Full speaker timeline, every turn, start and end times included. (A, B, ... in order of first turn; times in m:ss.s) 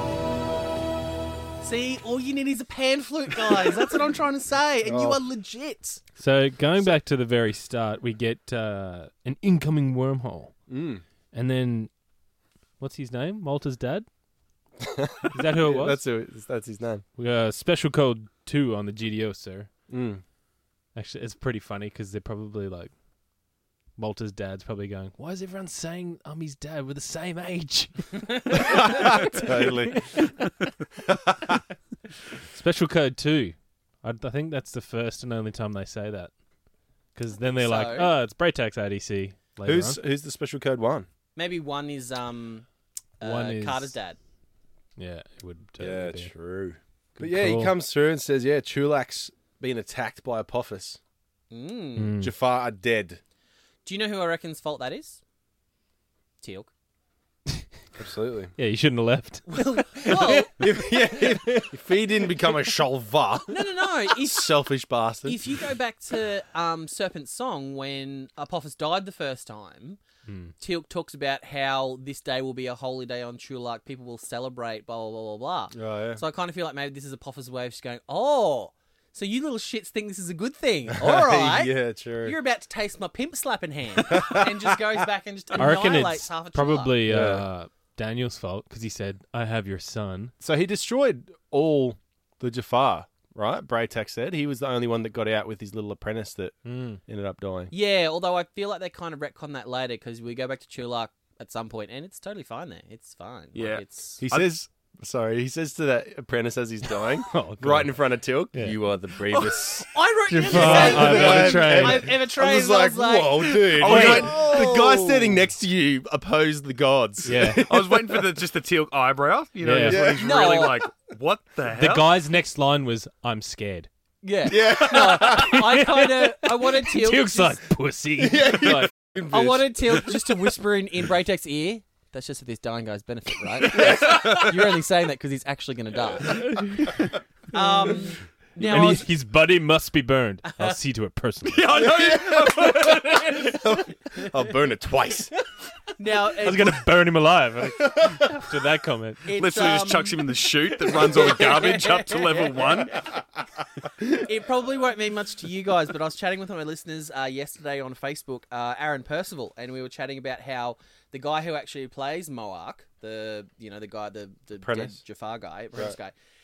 0:01.6-0:06.0 A
0:04.8-0:05.2 B
0:06.2-0:10.6 C
0:10.7-0:11.0 B
0:11.3-0:11.9 C
0:12.8-0:14.1 C
0:14.8-0:17.0 B
0:15.3-0:16.0 C
0:17.2-0:19.7 C
0:19.9-0:20.2 B
0:21.0-0:22.9 C
0:24.0-0:30.3 C
0:28.6-0:30.4 B
0:31.1-0:31.6 B
0:32.5-0:36.3 C
0:37.2-0:40.0 C
0:37.5-0:38.1 A
0:39.6-0:41.1 B
0:41.4-0:42.7 A
0:43.2-0:44.2 A
0:43.2-0:44.0 C
0:45.0-0:46.3 C
0:45.8-0:51.0 B
0:47.2-0:47.8 C
0:51.5-0:52.2 A
0:52.0-0:52.3 C
0:52.2-0:53.2 B
0:53.8-0:55.2 A
0:56.4-0:56.7 A
0:58.0-0:58.5 B
0:58.6-1:01.7 C
0:59.5-1:00.6 A
1:00.3-1:05.6 B
1:03.5-1:04.5 A
1:05.2-1:10.0 A
1:10.3-1:10.5 C
1:10.6-1:27.0 A
1:15.7-1:16.2 B
1:21.0-1:22.4 B
1:24.1-1:24.7 B
1:25.6-1:30.3 C
1:27.1-1:27.5 B
1:30.4-1:37.7 B
1:36.6-1:37.0 C
1:37.7-1:44.2 A
1:43.5-1:44.5 D
1:44.2-1:58.3 B
1:47.3-1:48.0 C
1:48.5-1:48.8 C
1:49.3-1:49.7 D
1:49.8-1:55.0 A
1:50.4-1:52.1 C
1:53.7-1:54.8 D
1:53.9-1:54.3 C
1:57.2-1:57.6 C
1:57.6-2:02.2 D
1:59.6-2:00.0 C
1:59.8-2:00.5 B
2:00.2-2:00.9 A
2:01.8-2:03.9 C
2:04.2-2:07.6 A
2:04.5-2:05.7 B
2:05.1-2:08.9 C
2:08.2-2:10.2 B
2:09.3-2:17.0 A
2:13.8-2:14.3 D
2:13.9-2:14.4 B
2:16.6-2:16.9 C
2:17.5-2:19.1 A
2:18.6-2:21.8 C
2:21.5-2:23.6 D
2:21.8-2:25.3 B
2:26.0-2:26.8 A
2:26.4-2:29.2 C
2:27.9-2:28.3 B
2:29.2-2:33.1 A
2:29.3-2:33.0 D
2:34.1-2:46.1 A
2:44.6-2:45.0 B